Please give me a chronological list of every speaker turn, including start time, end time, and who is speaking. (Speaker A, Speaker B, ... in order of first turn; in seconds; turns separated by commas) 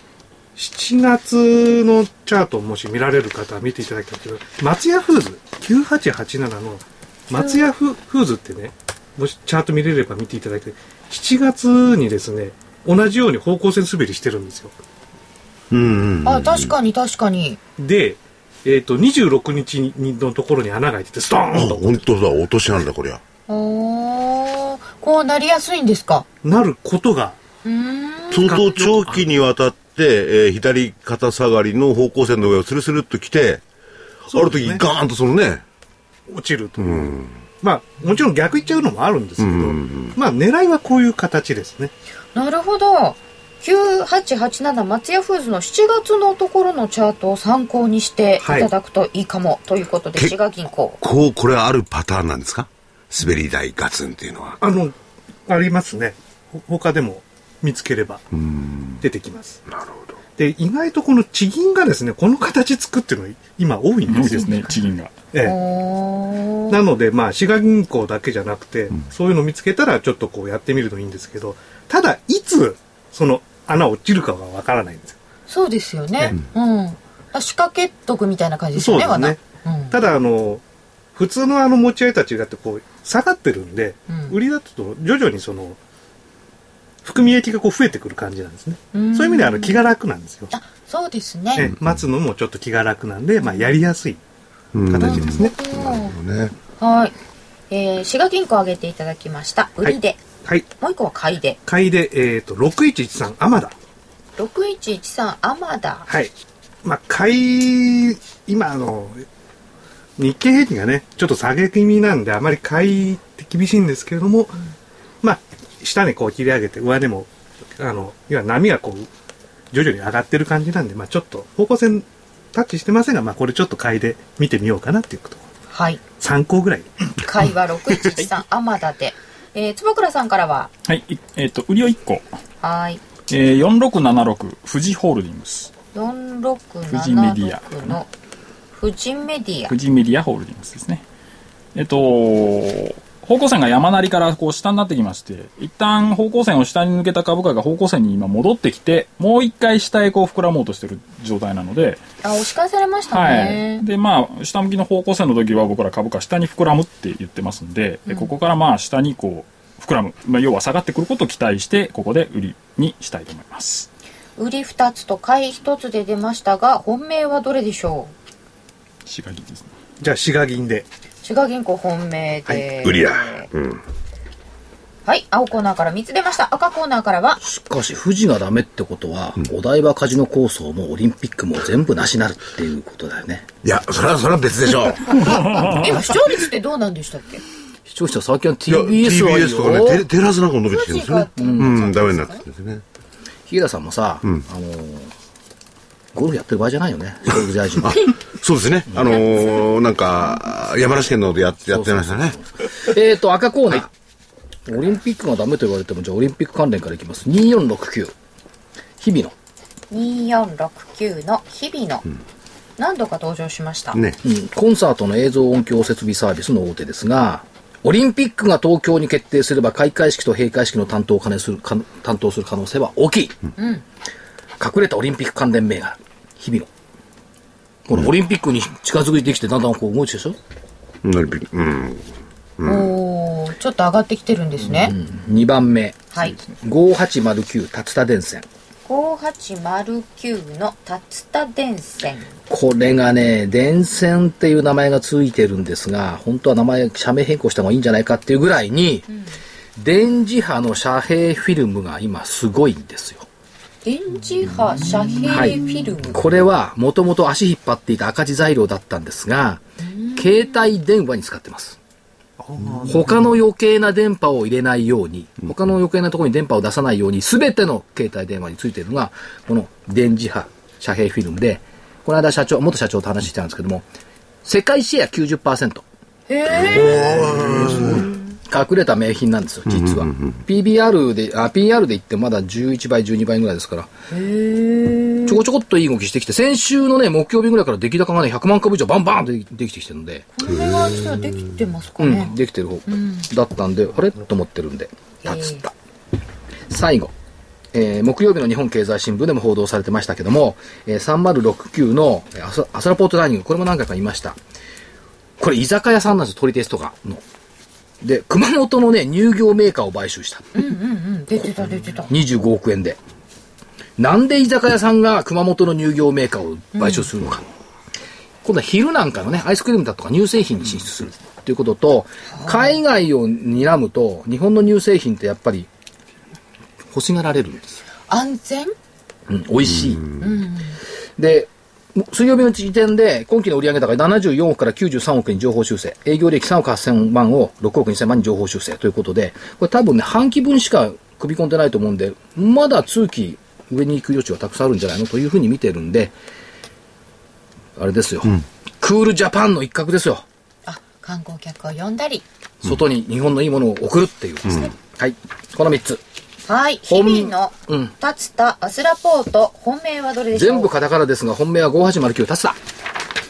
Speaker A: 0.6-14.7, Speaker B: 7.3-7.6, Speaker C: 15.7-16.7, Speaker B: 16.2-17.6, Speaker A: 17.8-22.0, Speaker C: 21.5-23.2, Speaker B: 23.5-26.2, Speaker A: 26.4-27.4, Speaker B: 27.6-28.6, Speaker C: 28.3-33.6, Speaker A: 28.4-29.3, Speaker A: 34.3-34.8, Speaker C: 34.3-35.6, Speaker A: 36.3-41.9, Speaker C: 36.8-37.4, Speaker C: 39.4-40.2, Speaker B: 42.3-51.0, Speaker A: 48.4-48.7, Speaker C: 51.0-54.6, Speaker A: 54.6-54.9, Speaker A: 55.5-58.2, Speaker C: 58.3-59.0, Speaker A: 59.0-59.6, Speaker C: 59.7-60.2, Speaker A: 60.4-64.7, Speaker D: 64.1-65.1, Speaker B: 64.5-64.8, Speaker A: 65.3-65.6, Speaker B: 65.4-66.8, Speaker A: 66.7-75.2, Speaker B: 75.5-80.0, Speaker A: 78.8-80.6, Speaker A: 81.1-85.8, Speaker B: 84.1-84.3, Speaker A: 87.0-90.5, Speaker B: 88.9-89.8, Speaker B: 90.5-91.7, Speaker A: 91.5-94.2, Speaker B: 93.4-93.8, Speaker C: 94.7-96.5, Speaker A: 94.9-95.5, Speaker B: 95.0-96.2, Speaker B: 96.8-97.1, Speaker B: 97.7-101.6, Speaker A: 99.8-100.7, Speaker A: 101.7-103.7, Speaker B: 104.4-106.1, Speaker A: 106.8-109.2, Speaker A: 110.2-114.6, Speaker A: 115.2-119.1, Speaker A: 119.7-125.5, Speaker B: 125.7-126.0, Speaker A: 126.2-126.9, Speaker B: 127.2-130.7, Speaker D: 130.8-132.3, Speaker B: 132.6-133.0, Speaker D: 133.3-135.7, Speaker B: 135.9-138.1, Speaker D: 136.9-138.0, Speaker B: 138.7-139.7, Speaker D: 139.7-141.0, Speaker D: 141.7-152.0, Speaker B: 152.2-153.8, Speaker D: 153.1-163.9, Speaker B: 158.1-158.3, Speaker B: 164.4-168.1, Speaker D: 169.1-169.7, Speaker A: 170.0-170.8, Speaker B: 171.2-173.5, Speaker C: 172.8-173.8, Speaker B: 175.1-177.4, Speaker E: 177.4-183.5, Speaker C: 183.6-185.8, Speaker B: 185.5-187.4, Speaker E: 187.9-190.0, Speaker C: 188.7-192.8, Speaker B: 190.7-192.4, Speaker E: 191.4-191.7, Speaker E: 193.5-195.1, Speaker E: 196.1-198.0, Speaker C: 197.8-202.4, Speaker E: 201.7-203.9, Speaker E: 204.7-208.1, Speaker E: 209.0-209.3, Speaker B: 209.9-212.0, Speaker B: 212.8-214.0, Speaker E: 214.2-223.3, Speaker B: 223.6-223.8, Speaker E: 224.6-226.7, Speaker E: 227.9-230.4, Speaker C: 231.0-232.1, Speaker C: 232.6-232.9, Speaker B: 232.6-234.9, Speaker E: 234.7-238.4, Speaker B: 236.1-236.4, Speaker B: 238.8-242.3, Speaker E: 242.5-249.1, Speaker E: 249.8-253.2, Speaker B: 253.8-256.2, Speaker E: 255.2-259.6, Speaker B: 259.8-260.6, Speaker E: 260.1-261.8, Speaker A: 262.4-263.2, Speaker E: 262.9-273.9, Speaker E: 274.4-275.8, Speaker B: 276.3-277.1, Speaker C: 276.6-278.1, Speaker E: 276.7-283.9, Speaker C: 279.8-280.4, Speaker B: 284.1-285.4, Speaker E: 285.2-290.3, Speaker B: 290.3-292.3, Speaker E: 292.0-295.7, Speaker B: 292.9-293.3, Speaker B: 295.2-295.7, Speaker E: 296.7-297.1, Speaker E: 297.7-304.4, Speaker E: 305.4-307.2, Speaker E: 308.0-310.7, Speaker B: 310.5-312.1, Speaker E: 312.1-313.0, Speaker E: 314.0-317.5, Speaker B: 316.8-317.1, Speaker E: 318.4-325.7, Speaker B: 322.3-322.7, Speaker E: 326.9-327.8, Speaker B: 328.1-328.7, Speaker E: 329.3-330.1, Speaker B: 330.2-330.8, Speaker E: 331.2-346.1, Speaker E: 347.8-350.2, Speaker B: 350.6-352.2, Speaker E: 352.6-356.0, Speaker B: 356.4-360.7, Speaker E: 356.9-357.9, Speaker E: 360.3-362.6